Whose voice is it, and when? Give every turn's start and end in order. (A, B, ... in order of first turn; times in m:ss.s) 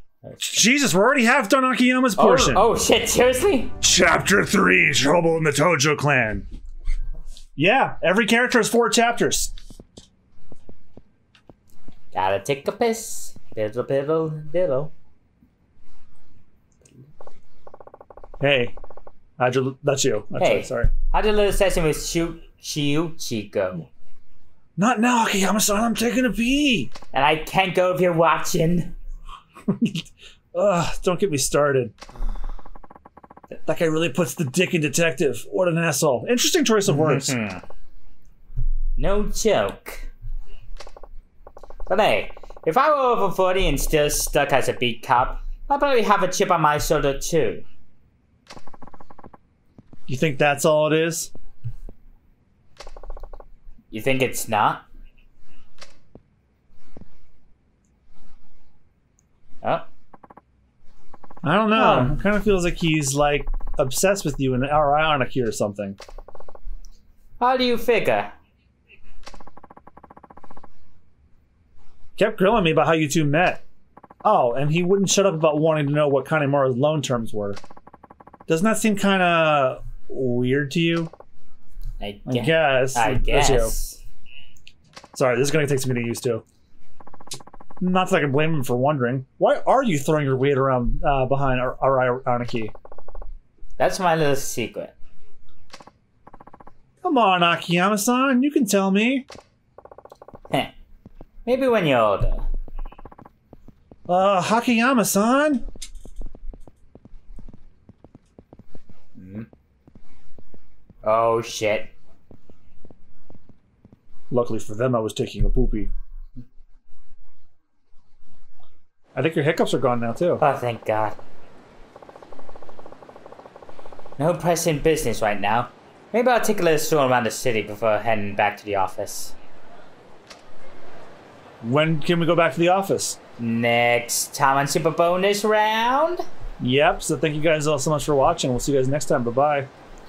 0:00.2-0:00.5 A
0:00.4-0:02.7 B
0:02.2-0:03.7 A
0:03.8-0:06.5 B
0:07.6-0:09.5 B
0:12.1-0:14.9 A
0:18.4-0:18.8 B
0:19.4-0:20.9 B
0:20.4-0:23.9 A
0:24.8-0:26.9 B
0:27.1-0:29.0 A
0:29.7-0:31.9 B
0:33.7-0:37.4 B
0:36.9-0:37.6 A
0:39.0-0:40.1 A
0:41.9-0:47.6 A
0:50.1-0:51.3 B
0:53.9-0:54.8 A
1:01.4-1:06.0 B
1:01.7-1:02.2 A
1:07.4-1:08.3 A
1:12.2-1:13.6 B
1:14.2-1:17.6 B
1:18.5-1:21.1 B
1:22.0-1:24.0 A
1:22.3-1:23.7 B
1:25.1-1:26.4 B
1:27.8-1:32.7 B
1:33.8-1:34.9 A
1:37.0-1:39.3 B
1:41.5-1:42.5 A
1:44.1-1:45.6 B
1:49.2-1:49.5 A
1:51.0-1:51.9 A
1:54.3-1:55.9 B
1:59.2-2:00.4 B
2:00.4-2:01.2 A
2:04.2-2:09.3 A
2:11.6-2:13.2 B
2:13.4-2:16.2 A
2:16.6-2:19.7 B